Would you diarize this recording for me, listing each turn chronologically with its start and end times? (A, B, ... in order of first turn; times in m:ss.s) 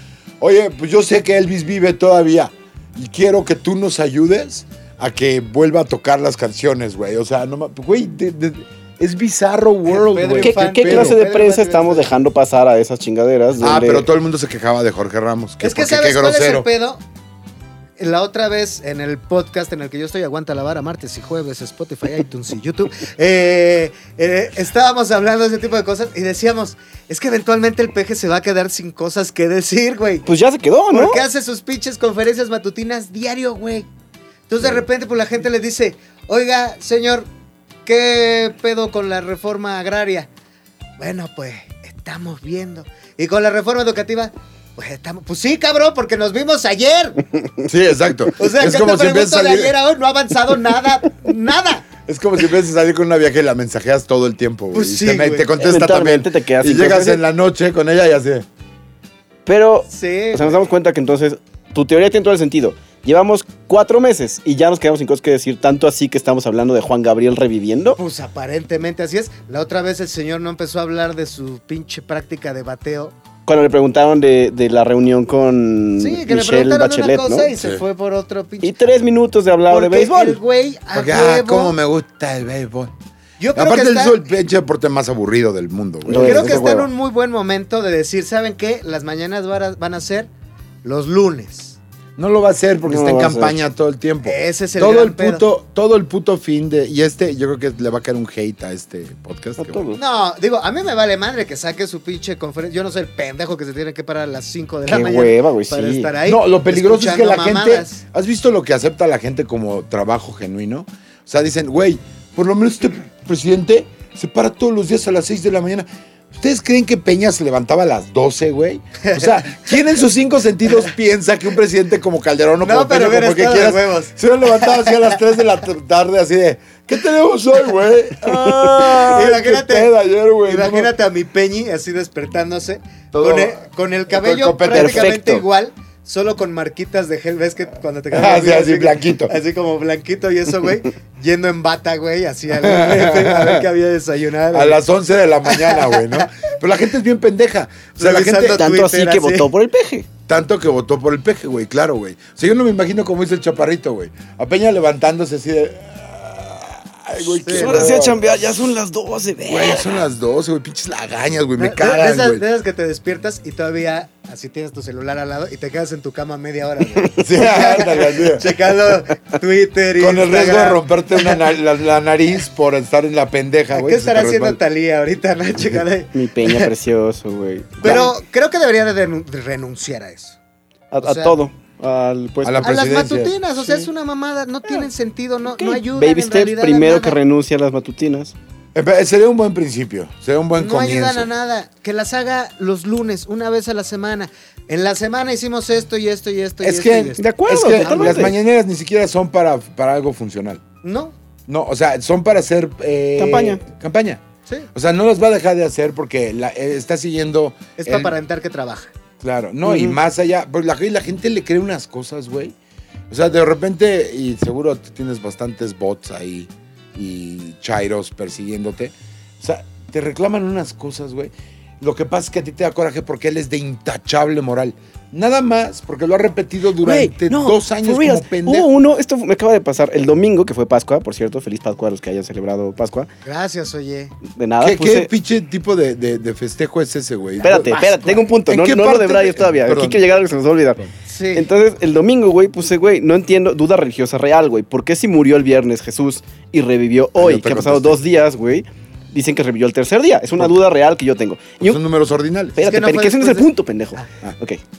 0:00.4-0:11.2 A
0:09.9-0:12.2 B
0:10.4-0:14.1 C
0:13.6-0:16.7 A
0:15.6-0:17.0 B
0:18.0-0:30.3 B
0:30.3-0:31.2 C
0:30.9-0:33.9 B
0:34.5-0:37.3 B
0:37.9-0:40.3 B
0:41.0-0:47.2 B
0:47.6-0:49.8 A
0:48.4-0:51.9 B
0:52.1-0:58.5 A
0:54.7-0:55.5 B
0:55.6-0:57.2 C
0:59.5-1:08.0 C
0:59.9-1:00.7 B
1:08.0-1:13.1 B
1:13.5-1:17.5 C
1:16.0-1:18.8 B
1:17.6-1:17.8 A
1:18.6-1:20.4 C
1:19.7-1:21.8 B
1:20.9-1:22.9 A
1:23.4-1:24.2 B
1:23.6-1:26.6 A
1:26.1-1:26.9 C
1:26.2-1:30.3 B
1:30.8-1:31.8 B
1:32.2-1:39.9 A
1:32.9-1:33.6 C
1:34.2-1:35.5 B
1:39.6-1:40.0 C
1:40.0-1:48.0 B
1:44.9-1:46.1 C
1:46.2-2:10.9 A
1:59.0-1:59.8 B
2:02.6-2:05.2 B
2:08.6-2:09.9 B
2:10.4-2:24.8 B
2:13.1-2:15.1 A
2:14.7-2:15.4 C
2:18.1-2:19.4 A
2:22.6-2:23.7 A
2:24.5-2:28.6 A
2:25.5-2:26.3 B
2:28.0-2:29.5 B
2:28.4-2:30.1 C
2:30.3-2:38.2 A
2:37.3-2:38.0 B
2:37.5-2:40.0 C
2:39.5-2:42.4 A
2:41.6-2:51.4 B
2:47.2-2:48.6 A
2:50.0-2:54.6 A
2:53.7-2:56.7 B
2:56.1-2:58.1 C
2:57.8-3:00.4 B
3:00.9-3:02.8 C
3:01.0-3:01.4 B
3:02.4-3:03.4 A
3:02.6-3:07.2 B
3:05.6-3:08.3 C
3:08.8-3:11.3 A
3:10.6-3:17.3 B
3:16.6-3:20.6 A
3:17.2-3:18.4 C
3:17.8-3:18.3 B
3:20.8-3:21.1 B
3:21.5-3:24.2 A
3:23.2-3:23.6 C
3:24.7-3:28.1 A
3:27.8-3:28.9 B
3:29.2-3:32.6 A
3:29.6-3:30.0 C
3:33.1-3:48.7 A
3:46.8-3:53.1 C
3:53.2-3:54.2 B
3:54.4-3:55.1 C
3:54.6-4:00.0 A
3:57.4-4:00.8 C
4:01.1-4:01.5 B
4:01.4-4:11.8 C
4:07.2-4:08.0 A
4:11.6-4:12.6 A
4:12.6-4:14.6 C
4:12.6-4:14.1 B